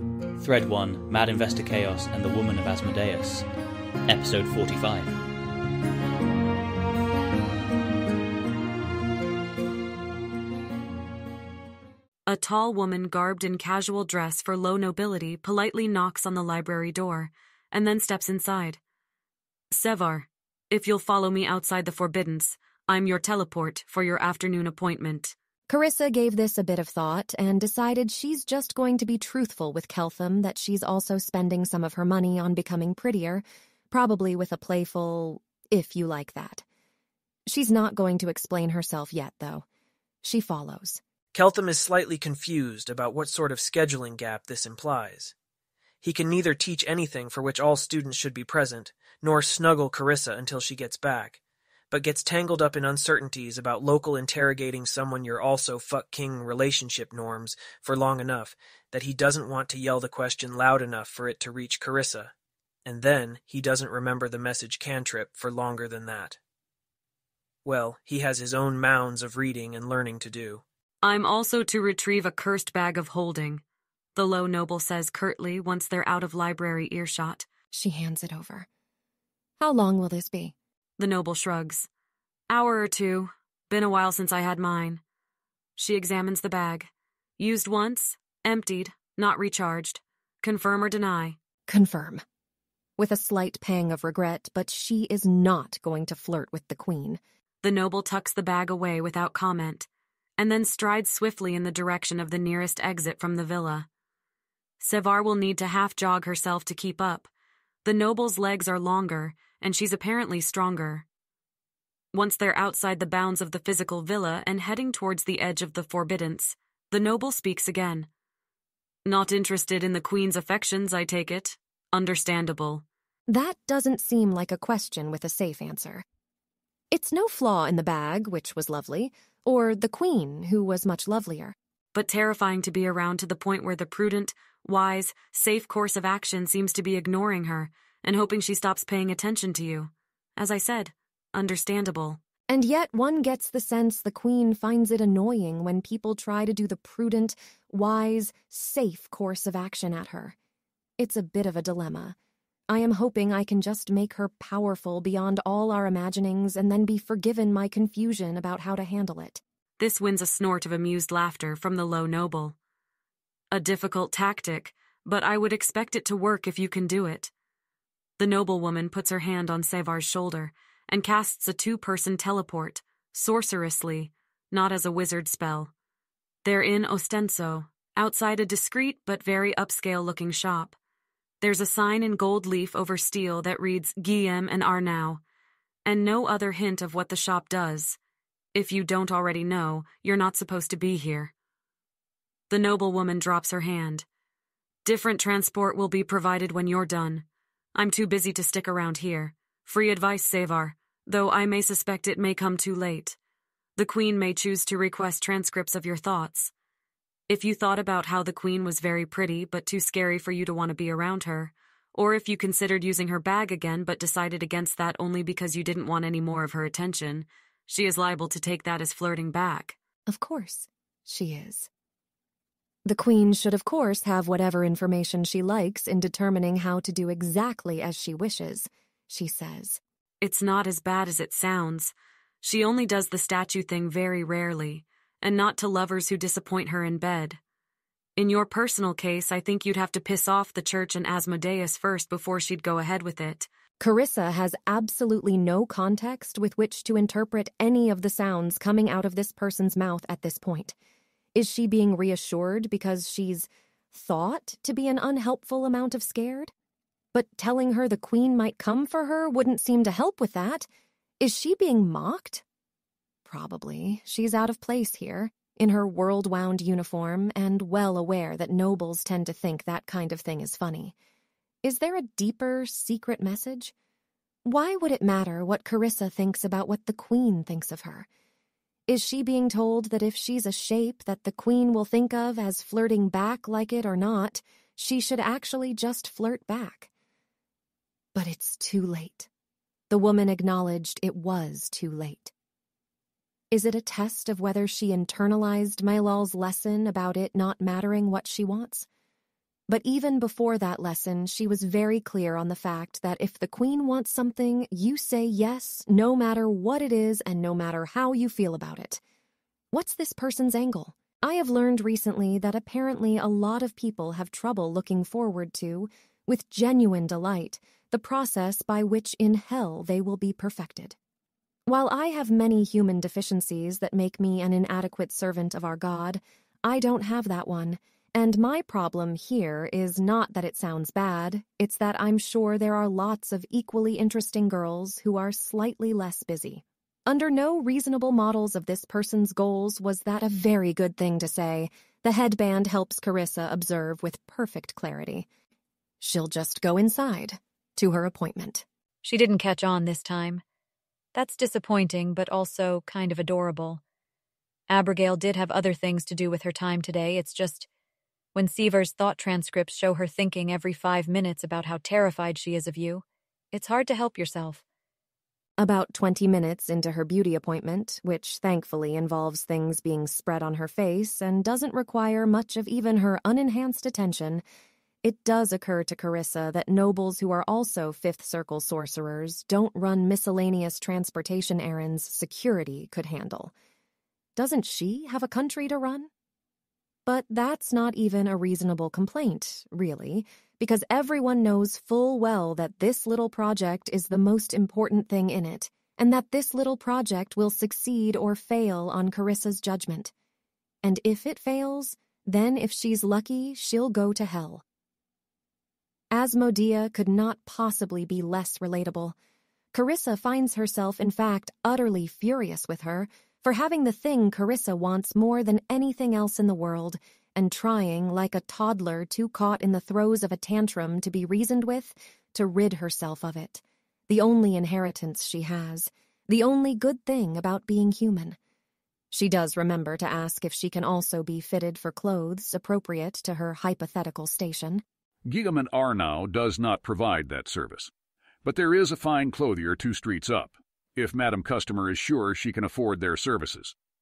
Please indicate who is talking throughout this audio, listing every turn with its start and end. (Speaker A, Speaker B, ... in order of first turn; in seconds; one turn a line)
Speaker A: 0.4-3.5
Speaker A: 4.1-5.2
Speaker B: 12.2-18.8
Speaker B: 19.7-25.3
Speaker C: 25.7-36.6
Speaker C: 37.5-39.6
Speaker C: 40.2-41.0
Speaker D: 41.3-45.3
Speaker D: 46.0-51.4
Speaker D: 51.9-62.3
Speaker D: 62.9-66.4
Speaker D: 67.6-70.6
Speaker B: 71.0-73.6
Speaker B: 74.1-77.5
Speaker C: 77.7-78.7
Speaker C: 79.6-80.5
Speaker B: 81.0-81.9
Speaker B: 82.5-85.0
Speaker B: 85.8-91.4
Speaker C: 91.7-92.2
Speaker C: 93.0-97.2
Speaker B: 97.6-103.9
Speaker B: 104.8-107.3
Speaker B: 107.8-111.0
Speaker B: 112.1-118.1
Speaker B: 119.0-122.8
Speaker C: 123.3-126.0
Speaker C: 126.9-131.5
Speaker B: 131.9-142.2
Speaker C: 142.5-150.3
Speaker C: 151.0-152.2
Speaker C: 152.7-159.4
Speaker B: 159.8-162.6
Speaker B: 163.5-167.3
Speaker B: 168.2-175.7
Speaker B: 176.4-180.8
Speaker B: 181.4-185.2
Speaker B: 185.8-188.0
Speaker B: 188.5-191.3
Speaker B: 192.5-194.1
Speaker B: 194.8-203.2
Speaker B: 203.8-206.5
Speaker B: 207.3-219.8
Speaker C: 220.1-221.7
Speaker C: 222.8-229.8
Speaker B: 230.2-237.4
Speaker B: 238.2-243.5
Speaker C: 243.8-250.8
Speaker C: 251.3-256.5
Speaker C: 257.1-260.7
Speaker C: 261.2-262.4
Speaker C: 263.2-270.9
Speaker C: 271.6-273.7
Speaker C: 274.4-278.1
Speaker C: 278.9-286.9
Speaker C: 288.1-289.3
Speaker C: 289.9-292.3
Speaker C: 293.5-298.9
Speaker C: 299.7-309.0
Speaker C: 309.7-321.0
Speaker C: 321.7-345.3
Speaker C: 346.0-348.6
Speaker E: 349.0-350.4
Speaker E: 351.1-353.8
Speaker E: 354.7-357.7
Speaker E: 358.3-364.6
Speaker C: 365.6-374.4
Speaker C: 375.0-383.5
Speaker C: 384.4-386.1
Speaker C: 387.1-400.1
Speaker C: 400.8-404.6
Speaker C: 406.1-409.1
Speaker C: 409.7-428.4
Speaker C: 429.1-434.8
Speaker F: 435.2-437.9
Speaker F: 438.4-443.7